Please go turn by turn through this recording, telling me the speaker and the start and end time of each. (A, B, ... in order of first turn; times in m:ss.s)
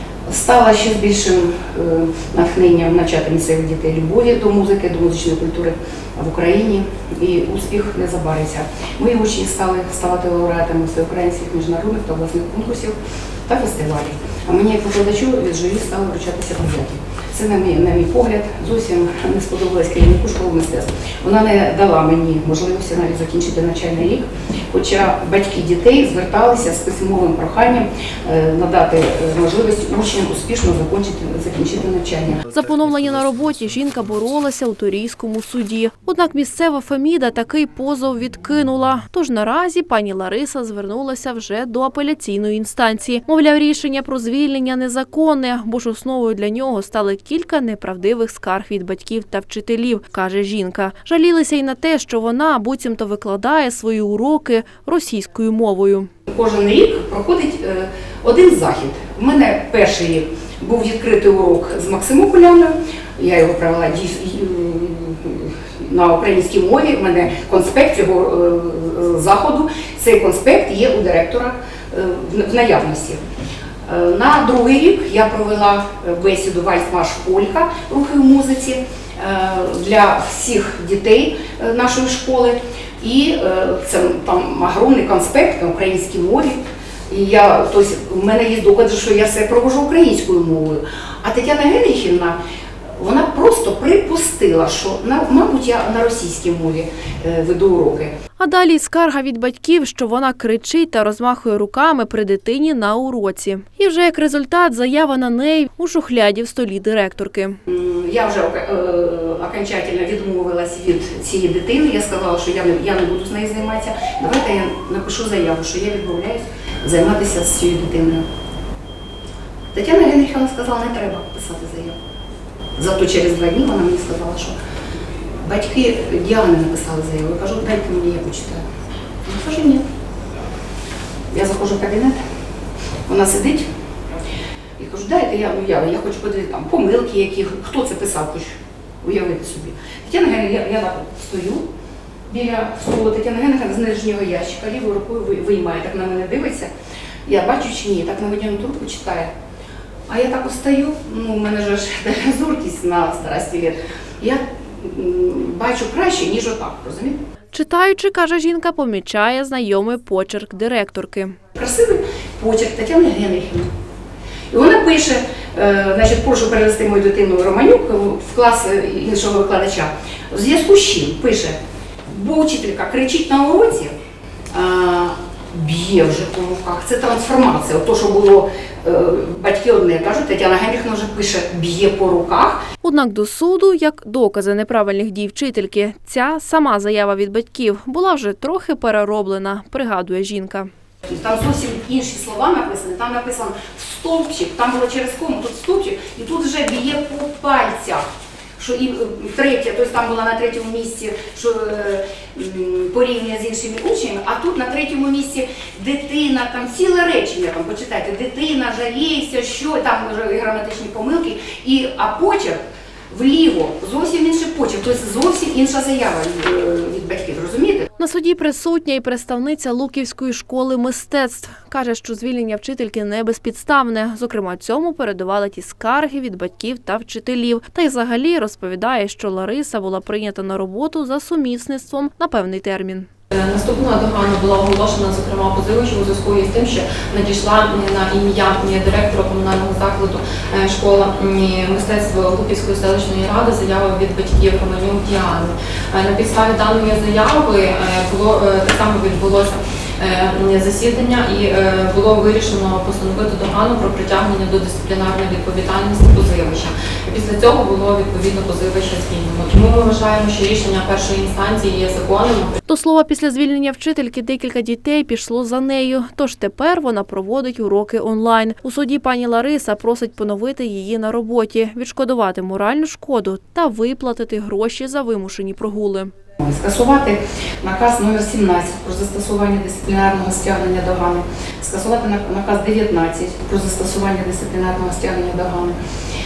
0:00.3-0:32.4 A
0:32.5-0:56.1 B
0:56.3-1:13.2 A
1:13.8-1:32.4 A
1:33.0-1:38.1 A
1:38.4-1:47.6 B
1:47.7-1:58.2 A
1:59.7-2:01.9 A
2:02.8-2:04.5 A
2:05.4-2:08.6 A
2:09.2-2:09.8 A
2:11.3-2:12.2 A
2:13.1-2:13.7 A
2:14.8-2:18.5 A
2:19.0-2:21.6 A
2:22.3-2:26.7 A
2:27.2-2:29.3 A
2:30.1-2:37.2 A
2:37.5-2:41.4 B
2:41.5-2:43.7 A
2:44.5-2:51.6 A
2:52.1-2:53.9 A
2:54.5-3:02.6 A
3:02.8-3:10.7 B
3:11.0-3:18.0 A
3:18.6-3:32.6 A
3:33.1-3:37.9 A
3:38.0-3:53.1 B
3:53.3-4:22.6 C
4:22.7-4:36.1 B
4:36.4-4:45.8 A